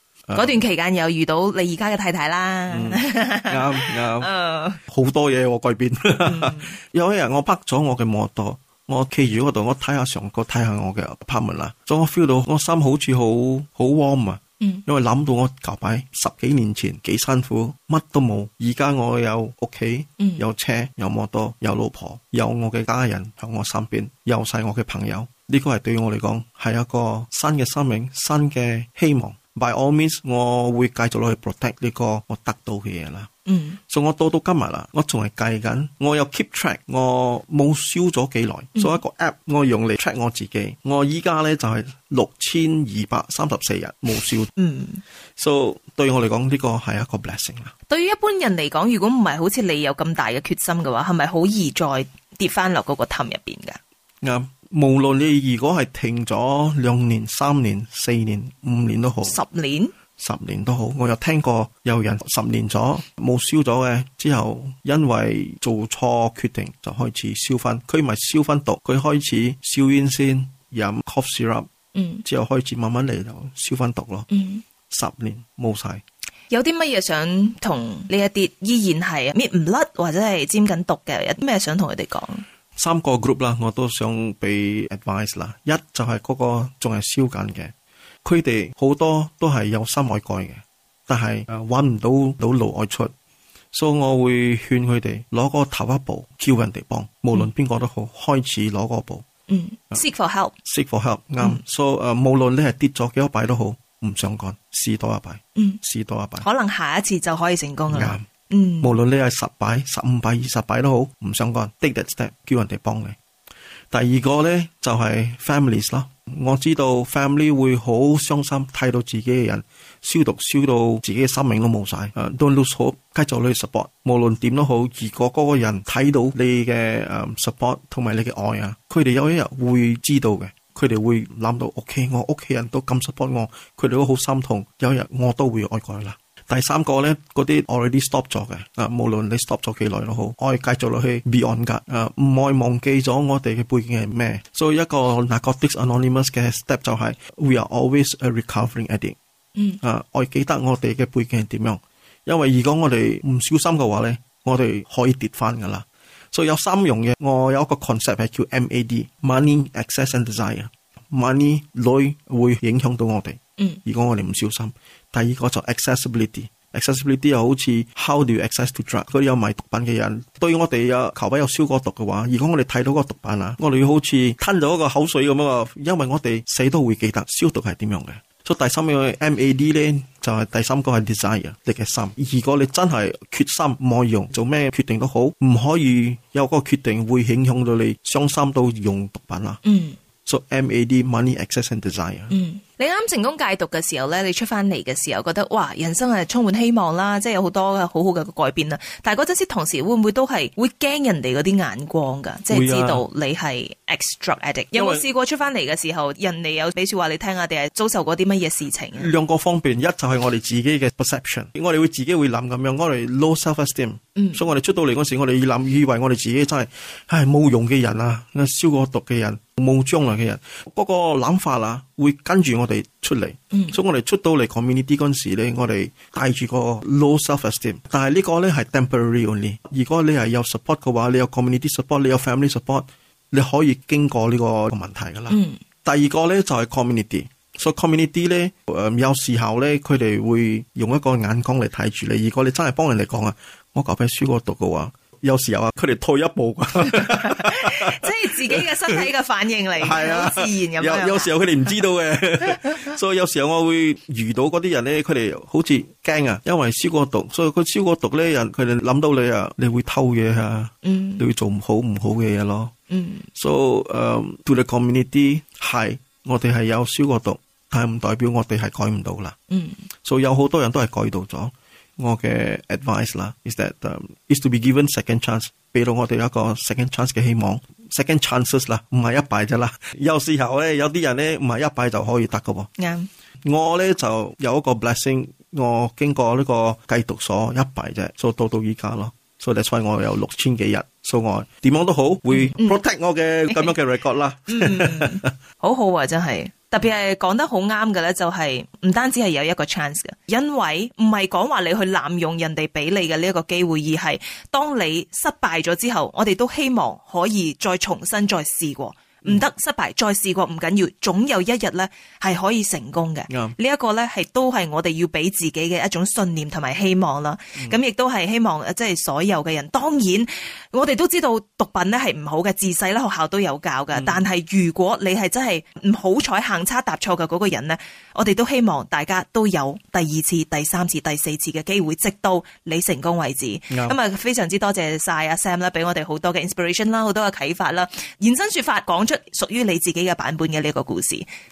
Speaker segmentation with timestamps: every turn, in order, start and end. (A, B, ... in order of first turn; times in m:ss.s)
0:00.3-0:00.6 A
0:00.4-0:04.8 B
0:02.7-0:04.3 A
0:04.9-0:33.3 A
0:06.2-0:06.8 B
0:20.2-0:20.4 B
0:33.5-0:33.8 B
0:33.9-0:44.5 A
0:44.6-0:45.0 B
0:45.4-0:47.7 A
0:47.9-0:53.8 B
0:54.2-0:59.4 A
0:59.2-0:59.9 B
1:00.2-1:11.7 A
1:12.0-1:12.2 B
1:12.2-1:14.3 A
1:14.3-1:14.6 B
1:14.9-1:16.0 A
1:16.5-1:22.4 B
1:22.8-1:27.7 A
1:28.2-1:33.1 A
1:33.7-1:39.3 A
1:39.5-1:40.5 B
1:40.6-1:46.5 A
1:46.4-1:48.9 B
1:47.9-1:48.2 A
1:48.8-1:53.2 A
1:53.9-2:29.2 A
2:29.8-3:09.6 A
3:09.6-3:10.0 B
3:10.3-3:12.3 A
3:12.3-3:29.1 B
3:22.5-3:23.0 A
3:24.7-3:25.1 A
3:29.0-4:09.1 A
3:34.2-3:34.4 B
3:43.5-3:43.8 B
3:55.3-3:55.6 B
4:06.8-4:11.3 B
4:09.8-4:22.7 A
4:12.4-4:12.9 B
4:20.8-4:21.2 B
4:22.9-4:23.3 B
4:23.4-4:29.4 A
4:29.5-4:29.8 B
4:30.0-4:42.7 A
4:42.8-4:43.1 B
4:43.4-4:55.3 A
4:52.3-4:52.8 B
4:54.5-5:41.3 B
5:13.3-5:13.6 A
5:23.9-5:24.2 A
5:33.7-5:34.0 A